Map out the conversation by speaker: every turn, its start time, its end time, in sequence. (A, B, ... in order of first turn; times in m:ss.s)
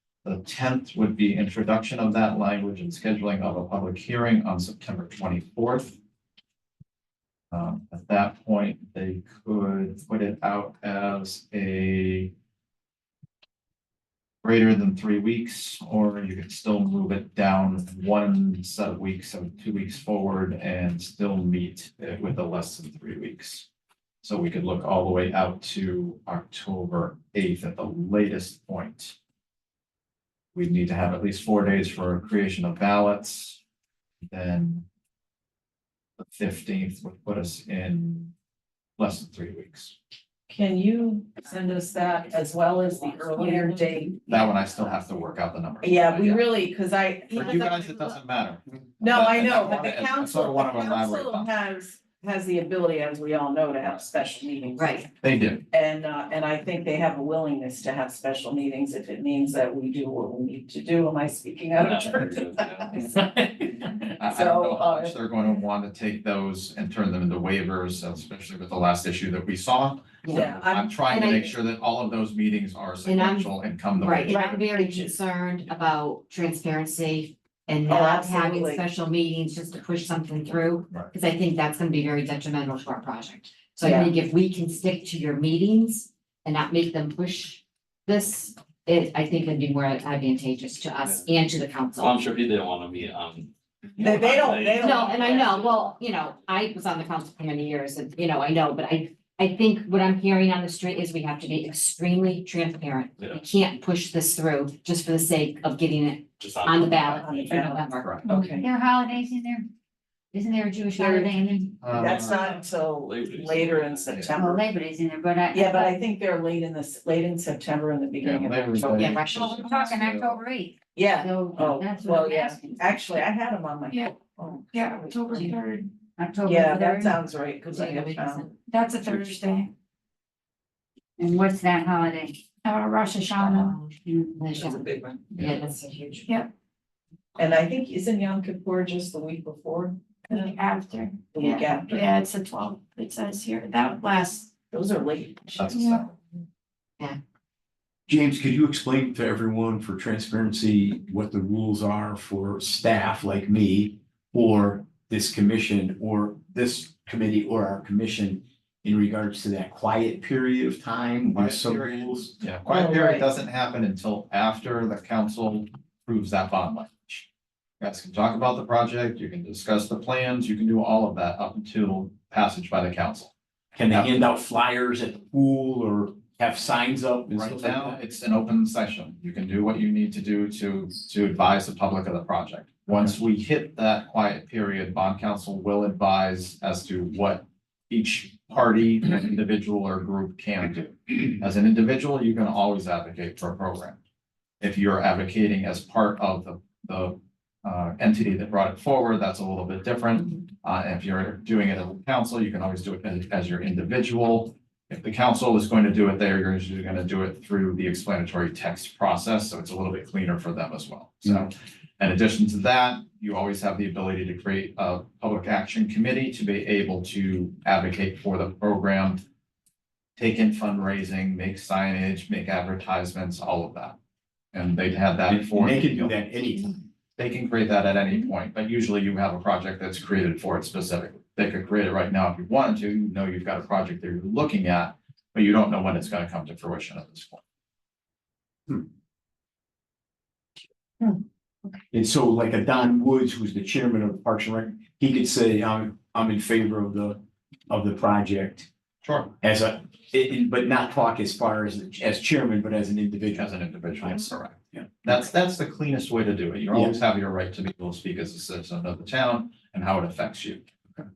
0:00.2-0:06.0 A
0:07.5-0:12.3 A
0:14.4-0:23.7 A
0:24.2-0:29.2 A
0:30.5-0:33.6 A
0:34.3-0:34.8 A
0:36.2-0:38.3 A
0:39.0-0:40.0 A
0:40.5-0:44.3 B
0:41.9-0:42.2 C
0:42.9-0:44.8 C
0:44.3-0:46.5 A
0:45.8-0:48.0 B
0:47.3-0:51.5 A
0:49.0-0:55.1 B
0:54.7-0:55.0 D
0:55.2-0:55.6 A
0:55.7-1:03.4 B
1:01.8-1:03.2 E
1:04.2-1:05.6 B
1:04.2-1:14.7 A
1:10.2-1:11.5 D
1:10.3-1:11.4 B
1:13.0-1:32.2 D
1:17.9-1:18.8 B
1:23.8-1:24.1 B
1:31.0-1:31.3 E
1:32.0-1:35.9 E
1:34.0-1:35.5 B
1:34.8-1:48.3 D
1:43.2-1:43.4 E
1:46.4-1:47.6 E
1:47.2-1:48.6 B
1:47.8-1:48.3 A
1:48.6-1:49.7 C
1:50.3-1:52.0 C
1:51.0-1:51.3 B
1:51.8-1:52.5 A
1:51.9-1:54.6 B
1:52.1-1:54.2 E
1:54.3-1:56.0 C
1:55.5-1:59.2 B
1:58.2-2:00.4 A
1:58.8-1:59.7 D
1:59.4-2:03.0 C
2:00.9-2:05.4 B
2:04.7-2:05.9 F
2:06.2-2:07.2 C
2:06.4-2:08.5 B
2:07.7-2:08.5 D
2:08.7-2:09.7 F
2:11.2-2:12.4 C
2:12.6-2:13.8 F
2:13.4-2:13.8 D
2:14.0-2:14.4 C
2:14.4-2:16.2 D
2:14.6-2:15.2 B
2:17.4-2:20.6 B
2:20.3-2:24.5 F
2:21.3-2:22.1 B
2:24.7-2:25.7 B
2:25.5-2:26.2 A
2:25.7-2:26.0 F
2:28.1-2:42.3 G
2:41.2-2:47.3 A
2:42.6-2:43.3 B
2:47.8-2:53.3 A
2:53.7-2:58.0 G
2:53.9-2:54.3 A
2:57.3-3:14.0 A
3:14.6-3:39.2 A
3:40.2-3:44.0 A
3:44.5-3:46.2 A
3:45.3-3:46.8 G
3:47.2-3:57.4 A
4:01.0-4:01.8 C
4:01.9-4:08.7 G
4:09.0-4:09.3 A
4:09.4-4:13.5 G
4:13.3-4:20.7 A
4:14.0-4:14.9 G
4:16.7-4:17.0 G